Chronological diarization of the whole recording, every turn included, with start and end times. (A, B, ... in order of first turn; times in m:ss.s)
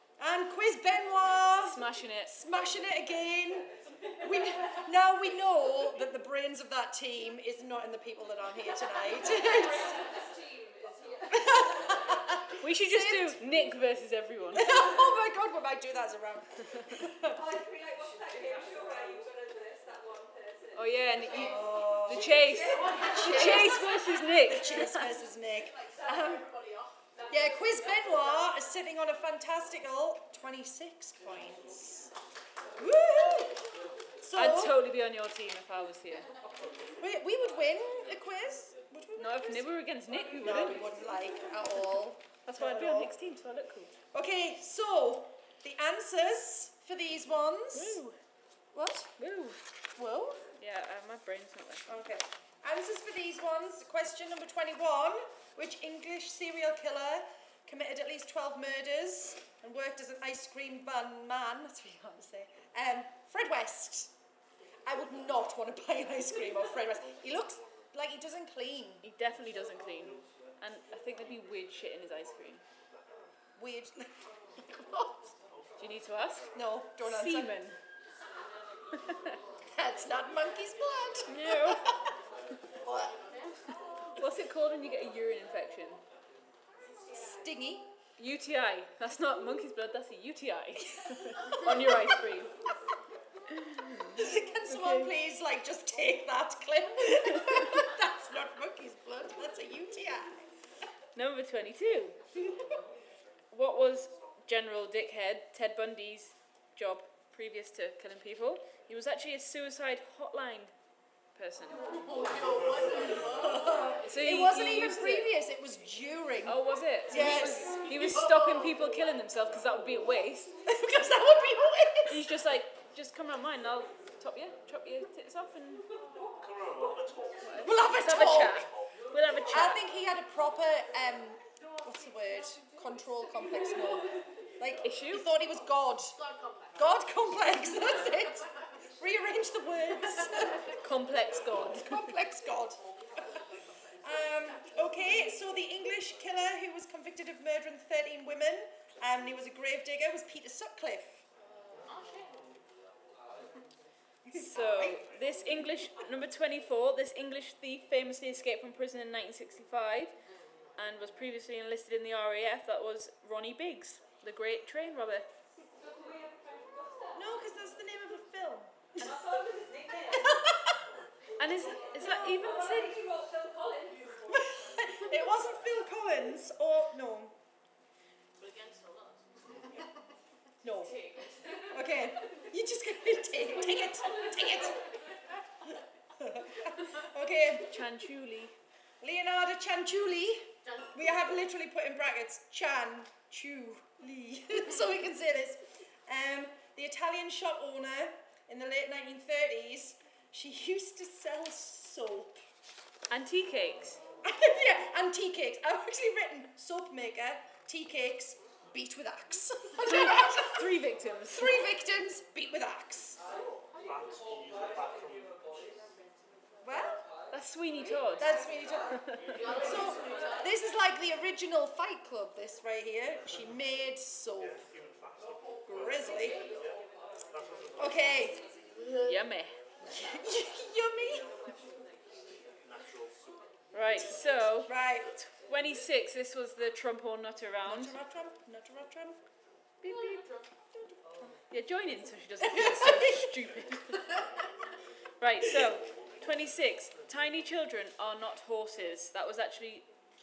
0:00.2-0:10.0 A
0:01.6-0:02.4 B
0:10.8-0:11.2 C
0:11.3-0:13.4 A
0:12.6-0:15.1 B
0:14.5-0:17.4 A
0:17.4-0:18.9 B
0:20.7-0:25.1 B
0:21.3-0:26.4 A
0:22.1-0:23.9 C
0:25.6-0:27.2 C
0:27.3-0:32.1 A
0:32.8-0:33.6 A
0:34.2-0:34.8 A
0:34.3-0:36.3 B
0:37.0-0:39.8 A
0:39.2-0:41.0 B
0:40.4-0:43.1 A
0:42.4-0:43.9 B
0:44.1-0:48.0 A
0:47.7-0:48.2 B
0:48.7-0:49.1 A
0:49.2-0:49.6 B
0:50.0-0:50.4 A
0:50.6-0:51.8 B
0:51.8-1:04.1 A
1:04.8-1:09.0 A
1:09.0-1:12.6 B
1:13.6-1:15.2 A
1:15.8-1:17.8 B
1:16.5-1:17.6 A
1:19.1-1:19.4 B
1:19.7-1:21.9 A
1:21.3-1:21.8 B
1:22.8-1:23.1 A
1:22.9-1:23.7 C
1:24.1-1:26.0 B
1:27.1-1:27.9 A
1:28.2-1:32.5 B
1:31.3-1:31.9 A
1:33.5-1:35.1 B
1:34.2-1:40.4 A
1:41.1-1:42.2 B
1:43.5-1:50.7 B
1:51.3-1:52.0 B
1:51.9-1:54.0 C
1:53.4-1:57.9 A
1:54.0-1:55.3 B
1:56.4-2:00.6 B
1:57.4-1:58.7 C
2:00.7-2:02.2 A
2:02.0-2:05.8 B
2:07.4-2:09.8 B
2:07.6-2:08.7 A
2:09.5-2:16.2 A
2:14.8-2:15.3 B
2:16.2-2:16.8 C
2:16.8-2:20.6 A
2:20.6-2:22.1 B
2:21.8-2:23.4 A
2:24.0-2:31.2 A
2:31.6-2:32.5 C
2:34.2-2:35.0 A
2:34.3-2:40.2 B
2:40.2-2:40.8 C
2:40.8-2:45.3 B
2:45.9-2:47.2 B
2:47.1-2:49.3 A
2:49.0-2:50.4 B
2:50.1-2:50.8 A
2:51.4-2:54.3 B
2:51.8-2:52.6 A
2:54.3-2:57.4 A
2:58.4-2:59.8 C
3:00.6-3:01.0 A
3:00.8-3:01.3 B
3:01.7-3:04.8 A
3:06.2-3:07.7 A
3:07.6-3:08.6 B
3:09.0-3:22.4 A
3:10.6-3:11.3 C
3:23.1-3:24.0 B
3:24.2-3:30.7 A
3:29.8-3:31.7 B
3:31.3-3:33.2 A
3:33.7-3:34.2 C
3:35.8-3:36.4 C
3:36.6-3:37.0 A
3:37.3-3:39.6 B
3:38.2-3:44.6 A
3:39.3-3:40.6 C
3:45.6-3:46.5 A
3:47.8-3:48.4 A
3:48.7-3:49.2 C
3:49.0-3:49.6 B
3:49.8-3:51.3 A
3:53.7-3:58.0 B
3:54.6-3:55.1 A
3:57.6-3:59.2 A
3:59.8-4:00.2 B
3:59.8-4:00.5 C
4:00.8-4:01.3 A
4:01.5-4:04.1 B
4:02.4-4:03.3 A
4:05.2-4:09.9 B